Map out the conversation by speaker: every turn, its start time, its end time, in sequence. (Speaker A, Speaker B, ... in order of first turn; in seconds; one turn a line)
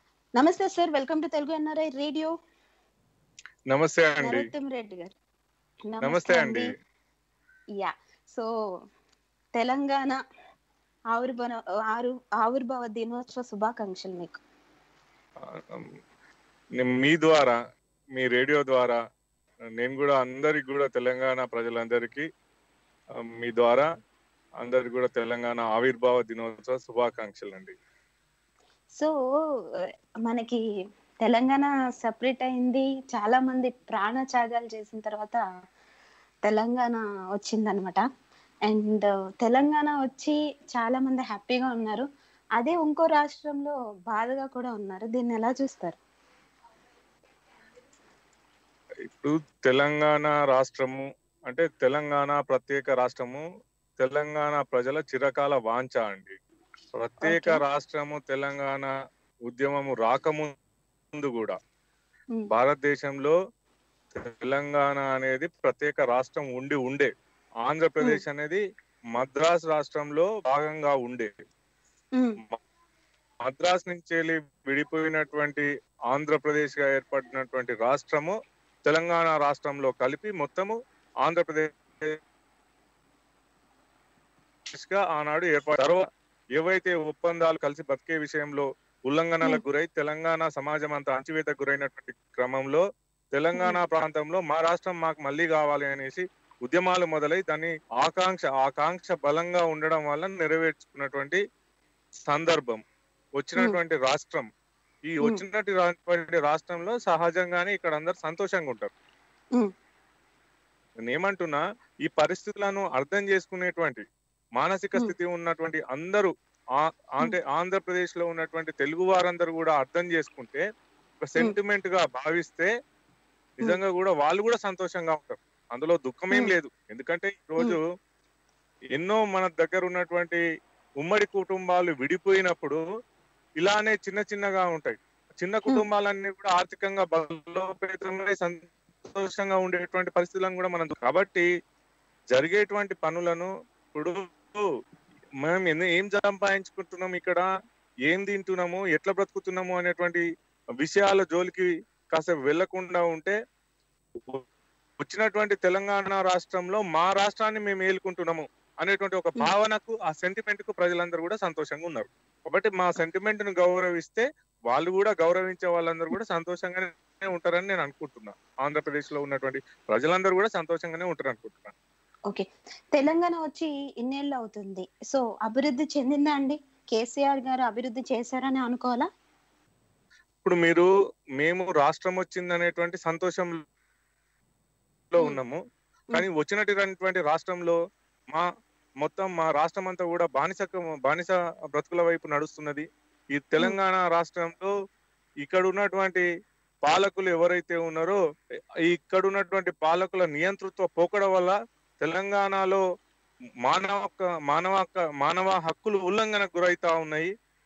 Speaker A: 0.3-2.3
Speaker B: 3.7-4.5
Speaker A: 4.2-5.2
Speaker A: 5.9-6.7
Speaker B: 6.0-6.7
Speaker A: 7.8-8.5
Speaker A: 9.5-10.2
Speaker A: 11.1-14.4
Speaker B: 15.4-15.9
Speaker B: 16.8-17.6
Speaker B: 18.1-19.0
Speaker B: 19.8-22.2
Speaker B: 23.2-23.9
Speaker B: 24.6-27.8
Speaker A: 30.2-30.6
Speaker A: 31.2-35.4
Speaker A: 36.4-38.0
Speaker A: 38.7-46.0
Speaker B: 49.0-53.4
Speaker B: 54.0-56.4
Speaker B: 57.0-58.9
Speaker A: 57.2-57.6
Speaker B: 59.5-60.5
Speaker B: 61.1-61.6
Speaker B: 62.5-63.3
Speaker B: 64.1-67.1
Speaker B: 67.6-68.6
Speaker B: 69.1-71.3
Speaker B: 73.4-82.2
Speaker B: 84.7-86.0
Speaker B: 86.5-92.8
Speaker B: 93.3-101.4
Speaker A: 93.5-93.8
Speaker B: 102.2-102.8
Speaker B: 103.4-104.5
Speaker B: 105.1-108.9
Speaker B: 111.0-114.0
Speaker B: 114.6-120.6
Speaker B: 121.2-122.7
Speaker B: 123.6-127.8
Speaker B: 128.9-130.4
Speaker B: 131.0-132.8
Speaker B: 133.6-141.4
Speaker B: 142.3-144.6
Speaker B: 145.4-147.5
Speaker B: 148.1-150.2
Speaker B: 150.8-153.3
Speaker B: 154.2-154.4
Speaker B: 155.0-171.7
Speaker A: 172.3-179.1
Speaker B: 180.4-183.6
Speaker B: 185.1-185.6
Speaker B: 186.1-187.8
Speaker B: 189.0-194.7
Speaker B: 195.4-196.2
Speaker B: 196.8-198.2
Speaker B: 198.8-202.8
Speaker B: 203.6-207.3